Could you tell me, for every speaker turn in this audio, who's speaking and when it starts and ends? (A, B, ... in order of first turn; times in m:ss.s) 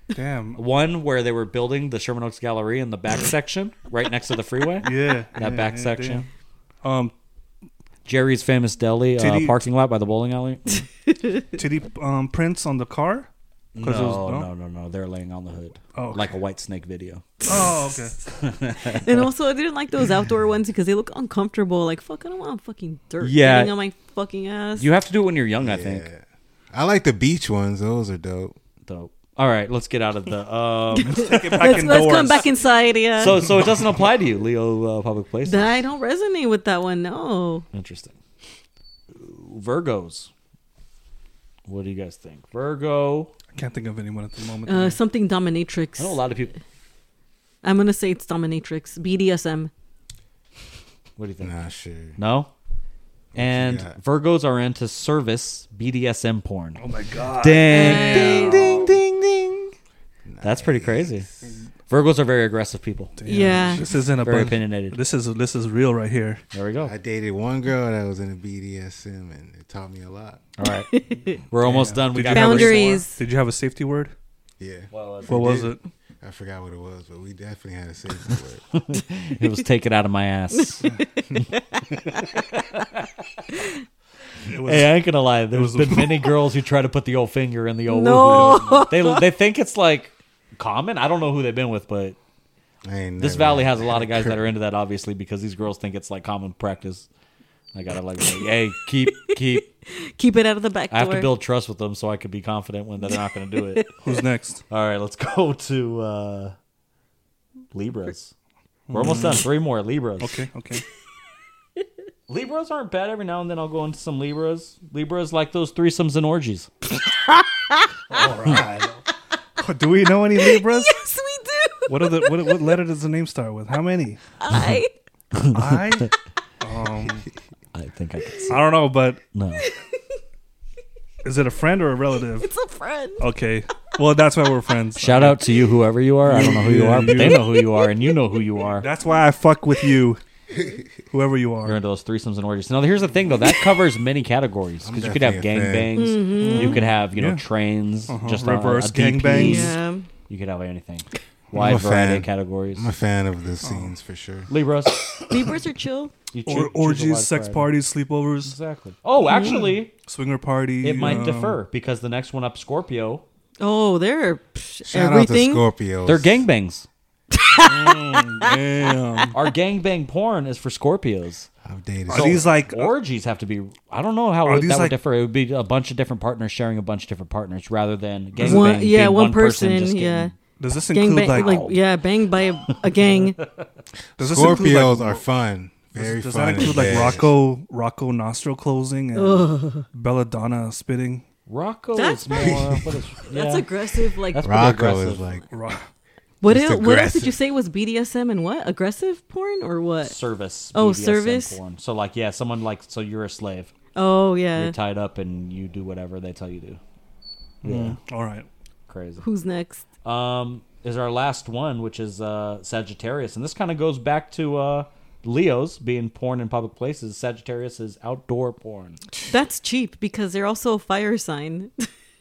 0:00.1-0:00.6 A
0:00.6-0:06.2 B
0:04.8-0:06.3 A
0:06.8-0:07.1 A
0:08.0-0:10.8 B
0:09.2-0:09.6 A
0:11.5-0:14.5 A
0:13.7-0:17.7 B
0:15.9-0:16.4 A
0:17.4-0:18.4 A
0:18.3-0:19.2 B
0:18.9-0:24.9 C
0:23.2-0:23.7 B
0:24.8-0:26.0 B
0:25.6-0:28.6 D
0:28.8-0:32.4 B
0:31.0-0:33.4 C
0:31.0-0:32.5 A
0:33.2-0:35.7 B
0:33.3-0:34.0 A
0:35.4-0:37.6 C
0:37.7-0:38.1 B
0:39.1-0:40.3 B
0:41.7-0:43.3 B
0:43.5-0:45.0 A
0:44.6-0:46.2 C
0:46.0-0:46.5 B
0:47.6-0:49.7 C
0:51.2-0:51.6 B
0:51.4-0:52.2 D
0:52.2-0:52.5 B
0:53.3-0:54.0 D
0:53.3-0:56.8 B
0:56.8-0:59.0 A
0:57.3-0:59.7 B
0:57.6-0:58.7 C
0:58.4-0:58.8 D
1:00.2-1:01.6 D
1:00.4-1:01.3 B
1:01.9-1:03.1 B
1:03.2-1:06.4 A
1:03.2-1:03.8 C
1:03.9-1:05.0 B
1:06.5-1:06.9 B
1:06.8-1:10.4 D
1:10.6-1:10.9 B
1:10.6-1:11.4 C
1:11.5-1:12.9 B
1:11.6-1:14.1 A
1:12.3-1:13.2 C
1:14.6-1:14.9 D
1:14.9-1:15.7 B
1:15.2-1:15.8 A
1:16.2-1:18.7 D
1:18.7-1:20.8 B
1:20.7-1:22.4 C
1:22.1-1:23.0 B
1:24.4-1:25.0 A
1:24.6-1:32.2 B
1:25.5-1:26.3 A
1:27.9-1:29.2 C
1:28.2-1:28.9 A
1:32.8-1:34.4 D
1:33.2-1:37.1 B
1:37.7-1:39.7 B
1:39.3-1:41.3 C
1:40.9-1:44.0 B
1:43.7-1:44.1 C
1:44.0-1:44.6 A
1:44.7-1:46.5 B
1:47.7-1:48.3 B
1:48.9-1:49.5 A
1:48.9-1:50.4 B
1:50.2-1:50.8 A
1:52.3-1:56.7 B
1:58.1-1:59.0 A
1:59.6-2:01.0 A
2:00.4-2:02.6 C
2:01.9-2:04.2 A
2:04.4-2:04.9 C
2:05.3-2:06.1 B
2:05.5-2:07.3 A
2:07.7-2:08.8 B
2:08.5-2:09.2 A
2:09.3-2:09.6 B
2:09.6-2:09.8 C
2:11.2-2:12.5 A
2:12.4-2:13.3 C
2:13.2-2:15.5 A
2:15.0-2:18.9 B
2:16.2-2:17.5 A
2:18.8-2:20.2 A
2:21.1-2:21.8 A
2:21.6-2:29.8 B
2:24.8-2:26.0 D
2:25.9-2:26.9 C
2:26.4-2:27.4 A
2:28.1-2:29.8 A
2:29.3-2:30.1 C
2:30.3-2:32.9 B
2:31.5-2:34.5 D
2:33.6-2:33.9 A
2:34.5-2:35.2 B
2:35.3-2:36.1 C
2:36.3-2:37.7 B
2:36.4-2:38.6 A
2:38.4-2:39.9 B
2:39.2-2:39.6 C
2:39.3-2:41.6 A
2:40.8-2:43.2 B
2:43.6-2:45.6 C
2:44.9-2:46.4 D
2:46.0-2:46.9 B
2:47.3-2:48.5 C
2:47.6-2:49.4 A
2:49.3-2:51.5 B
2:51.6-2:52.5 D
2:52.1-2:52.9 A
2:52.1-3:00.3 B
2:54.4-2:55.0 A
2:58.4-2:58.7 A
2:58.4-3:00.3 C
3:00.6-3:01.8 A
3:00.9-3:03.4 C
3:01.3-3:01.6 B
3:02.7-3:03.7 B
3:04.2-3:05.2 A
3:04.2-3:07.3 D
3:05.9-3:11.2 A
3:06.7-3:07.2 B
3:09.1-3:09.8 C
3:11.5-3:13.7 B
3:12.0-3:12.7 C
3:12.3-3:12.9 A
3:13.3-3:14.7 C
3:14.2-3:15.3 B
3:14.4-3:15.4 D
3:15.5-3:15.9 A
3:16.4-3:20.2 C
3:16.4-3:17.4 D
3:20.0-3:23.7 B
3:20.7-3:21.6 C
3:23.9-3:24.8 C
3:24.5-3:26.8 B
3:27.6-3:28.0 B
3:27.6-3:28.5 A
3:28.9-3:29.2 B
3:29.2-3:29.8 C
3:30.0-3:39.0 B
3:39.3-3:41.9 C